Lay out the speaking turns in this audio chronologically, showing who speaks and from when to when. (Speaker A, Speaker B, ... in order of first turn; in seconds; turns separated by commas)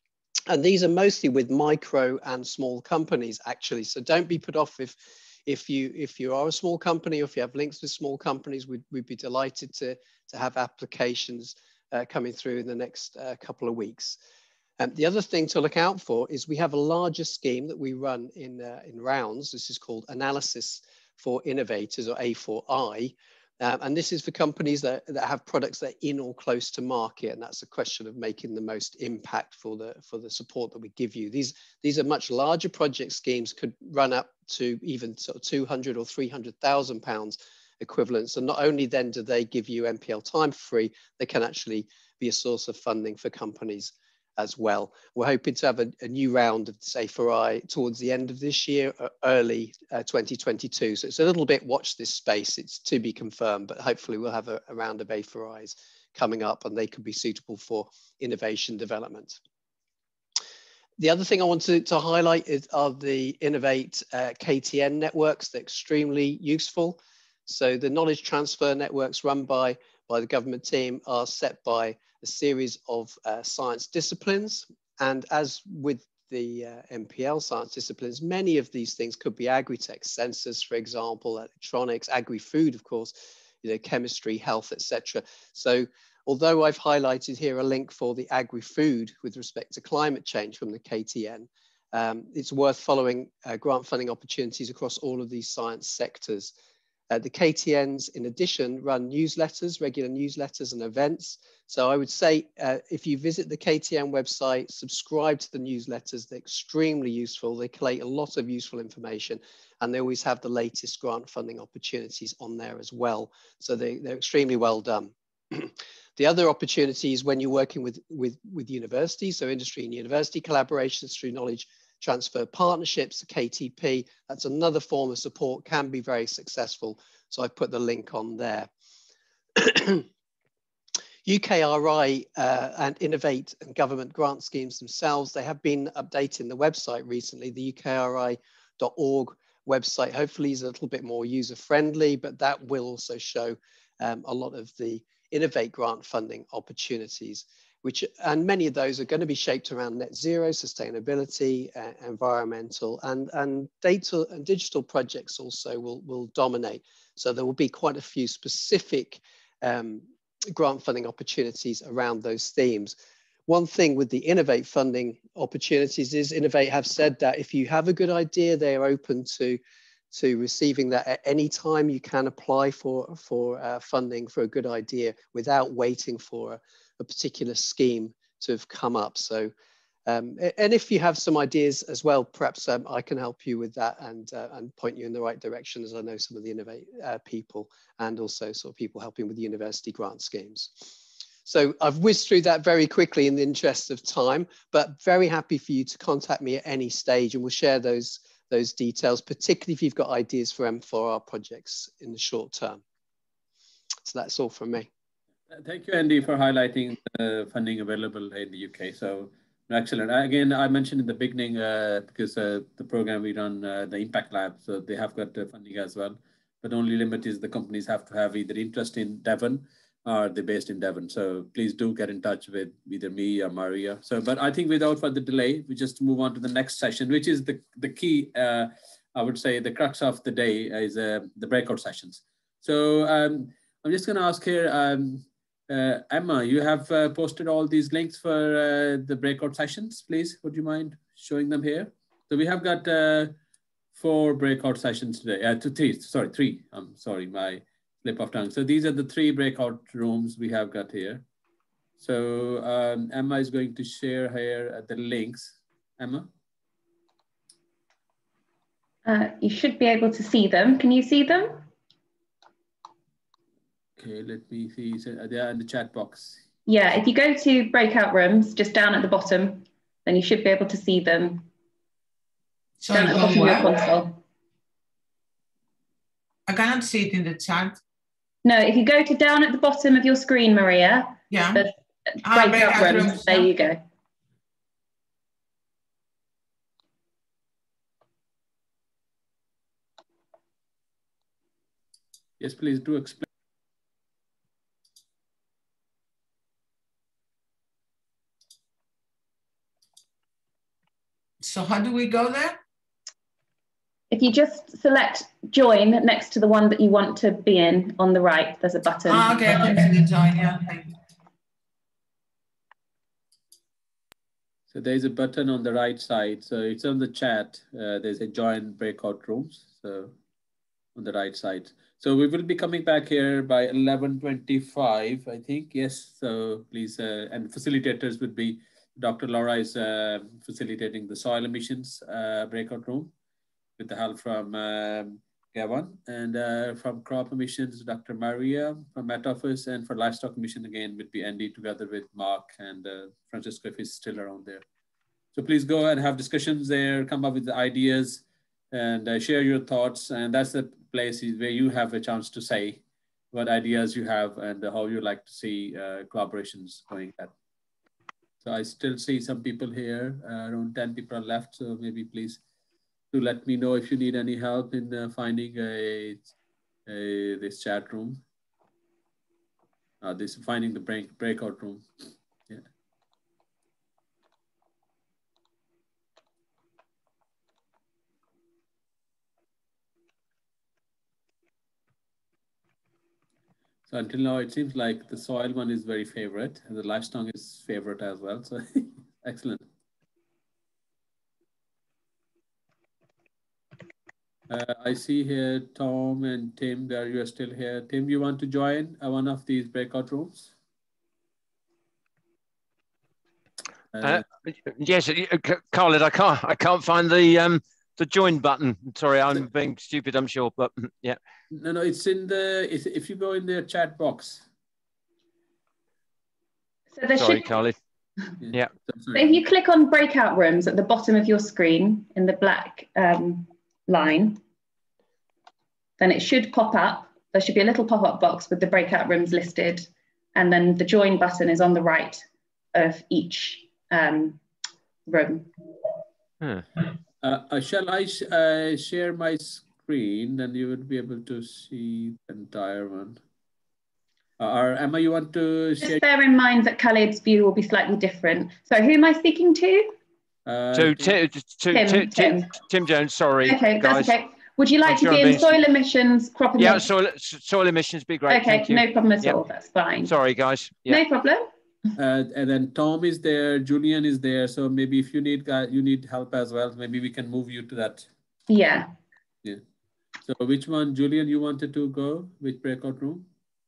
Speaker A: 0.5-14.2, Speaker A: 14.8-59.4, Speaker A: 61.0-96.5, Speaker A: 97.1-128.7, Speaker A: 129.6-130.1, Speaker A: 131.2-162.9, Speaker A: 163.5-169.6, Speaker A: 170.1-179.5, Speaker A: 180.1-202.8, Speaker A: 204.1-204.9, Speaker B: 205.5-243.3, Speaker B: 243.9-251.2, Speaker B: 252.0-256.3, Speaker C: 259.1-261.6, Speaker B: 264.0-266.4, Speaker C: 266.7-271.4, Speaker D: 272.8-273.7, Speaker C: 272.9-274.2, Speaker D: 276.5-277.8, Speaker C: 278.4-281.7, Speaker D: 281.3-281.7, Speaker D: 282.2-283.5, Speaker C: 282.2-283.8, Speaker B: 292.4-293.2, Speaker D: 301.4-302.6, Speaker C: 304.1-309.9, Speaker D: 309.0-310.9, Speaker B: 314.7-320.1, Speaker B: 320.9-333.1, Speaker B: 333.8-344.6, Speaker B: 345.3-357.3, Speaker B: 358.4-362.4, Speaker B: 363.1-366.3, Speaker B: 366.9-368.2, Speaker B: 370.0-371.9, Speaker B: 383.9-389.6, Speaker B: 394.5-400.5, Speaker B: 403.9-404.2, Speaker E: 404.0-411.2, Speaker B: 411.5-414.4, Speaker C: 416.9-417.6, Speaker E: 417.1-417.8, Speaker B: 418.4-419.3, Speaker C: 419.1-424.4, Speaker C: 426.0-434.4, Speaker C: 435.1-435.5, Speaker E: 436.4-436.6, Speaker B: 437.2-443.2, Speaker B: 444.4-446.0, Speaker C: 445.8-449.9, Speaker B: 450.4-451.2, Speaker E: 450.7-454.1, Speaker C: 451.7-452.6, Speaker C: 453.4-456.9, Speaker E: 454.8-455.6, Speaker E: 456.6-459.4, Speaker C: 458.3-460.1, Speaker E: 460.0-461.0, Speaker C: 460.9-461.5, Speaker B: 461.9-468.1, Speaker C: 468.5-468.9, Speaker B: 470.2-473.3